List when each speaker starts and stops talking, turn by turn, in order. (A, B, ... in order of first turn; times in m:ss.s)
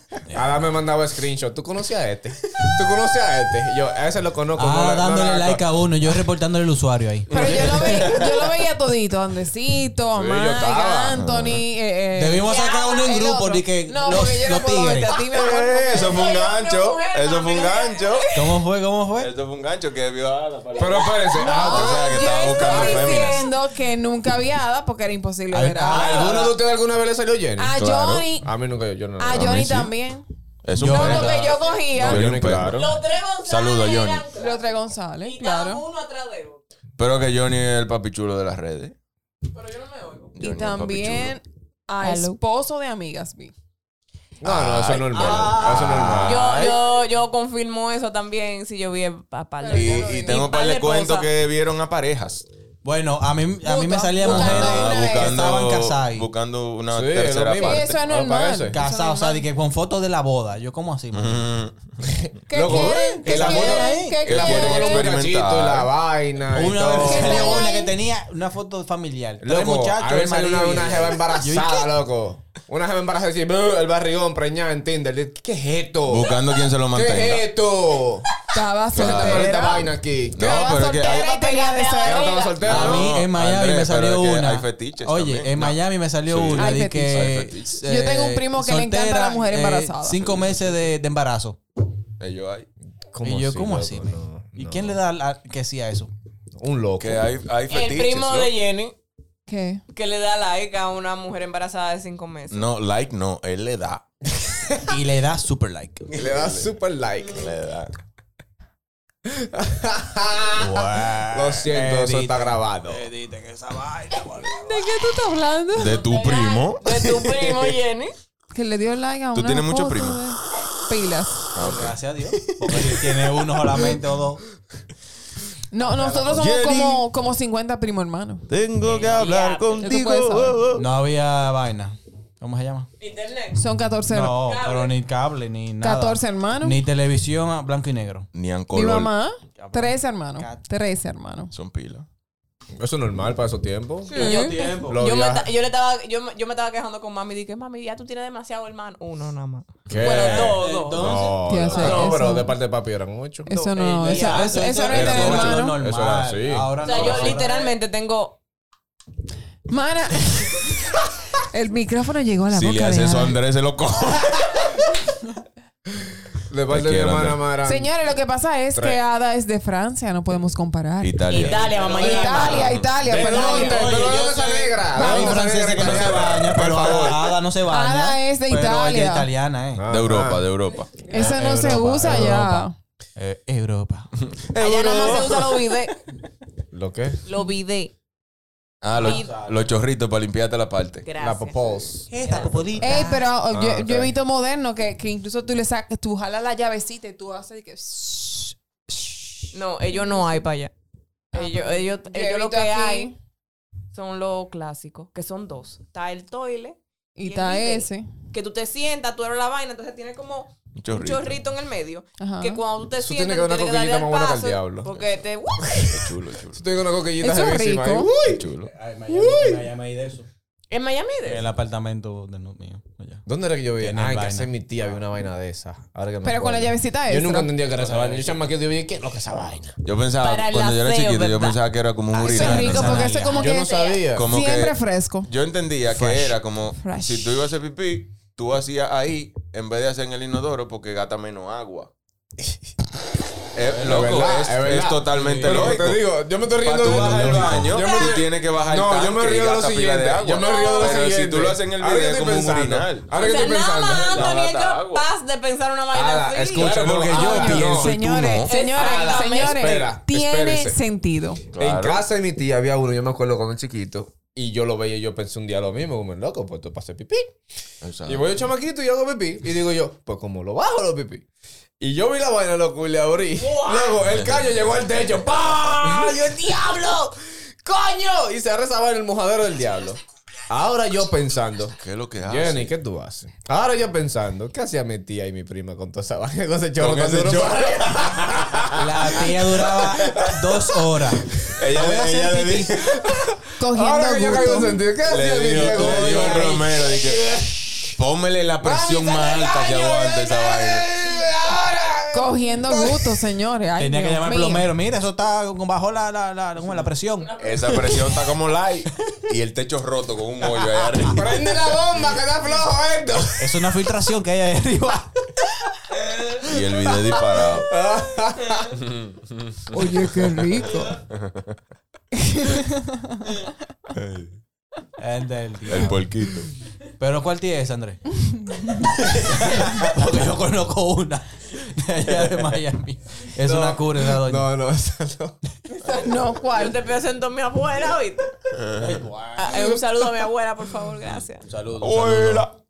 0:00.3-0:00.6 A
0:00.3-0:05.6 B
0:04.6-0:08.3 A
0:07.3-0:12.5 C
0:07.6-0:08.2 D
0:10.1-0:11.2 B
0:11.1-0:11.6 D
0:12.1-0:15.2 A
0:12.4-0:13.2 E
0:13.1-0:16.2 C
0:15.3-0:18.4 D
0:15.9-0:18.5 E
0:18.4-0:19.3 A
0:19.2-0:23.4 D
0:20.8-0:22.1 B
0:21.3-0:26.1 C
0:22.6-0:23.5 E
0:25.5-0:26.5 A
0:25.9-0:26.6 E
0:25.9-0:27.8 B
0:27.6-0:28.5 C
0:27.8-0:28.3 D
0:28.4-0:29.6 B
0:29.2-0:30.3 C
0:29.3-0:29.9 D
0:30.6-0:32.8 D
0:30.8-0:31.6 A
0:30.8-0:32.2 C
0:31.0-0:31.9 E
0:31.9-0:32.9 B
0:32.6-0:34.6 E
0:33.4-0:34.3 D
0:34.4-0:35.8 C
0:35.2-0:36.6 E
0:37.0-0:39.0 D
0:39.5-0:40.4 E
0:40.4-0:41.4 D
0:40.4-0:43.5 C
0:42.0-0:42.4 E
0:44.4-0:46.5 B
0:44.4-0:46.6 D
0:45.0-0:46.8 A
0:46.2-0:51.3 E
0:49.6-0:50.5 C
0:49.7-0:52.5 D
0:52.8-0:56.3 A
0:53.6-0:54.6 C
0:54.2-0:55.5 E
0:54.2-0:58.0 D
0:56.9-0:58.8 B
0:57.6-0:59.5 C
0:58.7-1:01.5 A
1:01.1-1:02.0 D
1:02.3-1:07.7 B
1:02.5-1:05.2 C
1:02.7-1:04.8 A
1:04.2-1:05.9 D
1:06.5-1:11.9 A
1:07.0-1:08.0 C
1:09.4-1:18.3 B
1:16.1-1:17.5 D
1:18.5-1:22.4 C
1:18.9-1:20.7 B
1:19.0-1:19.6 D
1:20.3-1:21.3 D
1:21.0-1:22.9 E
1:22.0-1:23.1 B
1:22.6-1:31.6 A
1:22.6-1:27.6 D
1:26.5-1:30.3 C
1:30.3-1:30.8 D
1:32.2-1:32.7 D
1:33.1-1:35.0 B
1:33.2-1:36.1 A
1:36.6-1:37.3 B
1:37.0-1:38.6 D
1:37.7-1:39.0 E
1:39.5-1:39.8 C
1:39.9-1:42.7 E
1:42.5-1:44.0 D
1:44.4-1:44.8 B
1:44.9-1:46.1 A
1:46.1-1:47.6 B
1:46.2-1:46.7 D
1:47.3-1:47.9 D
1:49.3-1:53.1 B
1:50.5-1:55.0 A
1:54.6-1:56.7 C
1:55.7-1:57.7 D
1:56.8-1:58.1 E
1:58.5-2:01.5 C
1:59.3-2:00.3 D
2:01.5-2:03.1 D
2:01.6-2:04.4 A
2:05.7-2:08.5 C
2:05.8-2:06.5 A
2:06.3-2:07.1 D
2:08.5-2:10.9 D
2:08.8-2:09.9 E
2:09.8-2:10.6 C
2:10.7-2:12.9 A
2:13.0-2:13.6 E
2:13.6-2:14.4 C
2:14.0-2:18.3 A
2:14.4-2:14.9 E
2:15.8-2:16.8 C
2:18.3-2:19.2 D
2:18.7-2:21.5 C
2:19.5-2:20.6 A
2:21.5-2:22.1 D
2:22.8-2:25.5 B
2:24.1-2:24.7 C
2:24.2-2:25.0 A
2:24.2-2:31.2 E
2:29.9-2:33.6 B
2:30.0-2:32.0 A
2:31.5-2:32.5 C
2:31.7-2:32.2 E
2:33.5-2:35.8 C
2:33.6-2:34.9 E
2:33.7-2:37.7 A
2:34.9-2:35.7 D
2:35.7-2:37.4 B
2:36.8-2:38.4 E
2:39.7-2:40.7 C
2:41.4-2:43.4 C
2:42.5-2:44.8 D
2:46.5-2:47.9 B
2:46.7-2:47.4 D
2:47.6-2:51.2 C
2:48.7-2:49.0 B
2:51.0-2:57.2 D
2:51.3-2:52.8 E
2:51.8-2:54.2 C
2:53.0-2:57.2 B
2:53.2-2:59.8 A
2:57.6-2:59.3 C
2:59.8-3:00.4 B
2:59.9-3:01.1 D
3:01.1-3:02.8 C
3:01.1-3:04.1 A
3:04.4-3:05.4 D
3:04.6-3:06.0 E
3:06.7-3:07.2 B
3:07.3-3:07.9 E
3:08.8-3:11.1 D
3:08.9-3:09.4 E
3:08.9-3:09.6 A
3:11.0-3:11.6 E
3:11.2-3:12.1 B
3:12.1-3:13.3 A
3:12.8-3:20.5 C
3:13.5-3:14.1 B
3:19.5-3:20.7 E
3:21.3-3:23.2 C
3:21.3-3:23.1 E
3:23.9-3:35.9 E
3:27.2-3:28.3 C
3:30.8-3:31.4 D
3:32.2-3:32.6 C
3:33.0-3:34.9 B
3:34.9-3:35.2 D
3:35.8-3:36.6 D
3:36.5-3:38.4 B
3:37.2-3:38.1 C
3:38.3-3:38.7 D
3:38.6-3:40.3 A
3:39.1-3:39.7 B
3:40.7-3:41.5 E
3:41.2-3:43.2 A
3:43.3-3:49.8 B
3:43.8-3:44.5 A
3:46.2-3:47.6 C
3:47.7-3:48.4 A
3:49.8-3:53.2 D
3:50.2-3:51.6 E
3:52.1-3:53.5 A
3:52.2-3:55.3 C
3:53.3-3:54.3 B
3:54.1-4:01.9 D
3:55.9-3:56.4 A
3:56.8-3:57.4 C
4:03.5-4:06.0 D
4:03.8-4:14.3 B
4:05.1-4:05.8 A
4:06.6-4:13.1 D
4:06.8-4:08.0 A
4:07.7-4:08.2 E
4:10.4-4:11.0 E
4:13.1-4:16.8 E
4:14.0-4:15.1 D
4:15.9-4:18.0 B
4:16.6-4:18.5 D
4:17.0-4:21.4 C
4:18.4-4:19.8 E
4:18.8-4:20.8 B
4:21.5-4:22.0 D
4:21.6-4:27.3 B
4:27.8-4:28.4 D
4:28.1-4:31.2 B
4:31.8-4:48.7 B
4:33.4-4:34.0 E
4:34.0-4:34.6 D
4:35.5-4:36.8 E
4:41.8-4:42.7 D
4:46.8-4:48.8 D
4:48.8-4:52.8 A
4:49.8-4:50.3 B
4:51.6-4:53.0 D
4:52.9-4:57.5 B
4:53.6-4:54.8 C
4:55.1-4:57.4 D
4:55.6-4:56.6 A
4:57.9-5:00.9 D
4:58.6-5:03.2 B
5:02.1-5:04.7 C
5:03.8-5:07.3 A
5:07.2-5:08.0 E
5:07.4-5:11.5 D
5:11.0-5:13.6 B
5:13.4-5:15.3 A
5:16.4-5:17.7 D
5:16.5-5:18.7 B
5:18.8-5:19.6 D
5:19.7-5:21.0 C
5:20.8-5:21.4 D
5:22.1-5:23.3 C
5:23.9-5:24.4 D
5:25.0-5:26.0 A
5:25.6-5:26.6 D
5:27.0-5:28.0 A
5:28.7-5:34.5 A
5:33.4-5:35.4 B
5:35.7-5:36.8 C
5:36.5-5:38.3 E
5:38.5-5:39.0 D
5:38.8-5:39.8 A
5:39.4-5:41.4 E
5:41.4-5:42.5 A
5:41.8-5:42.6 D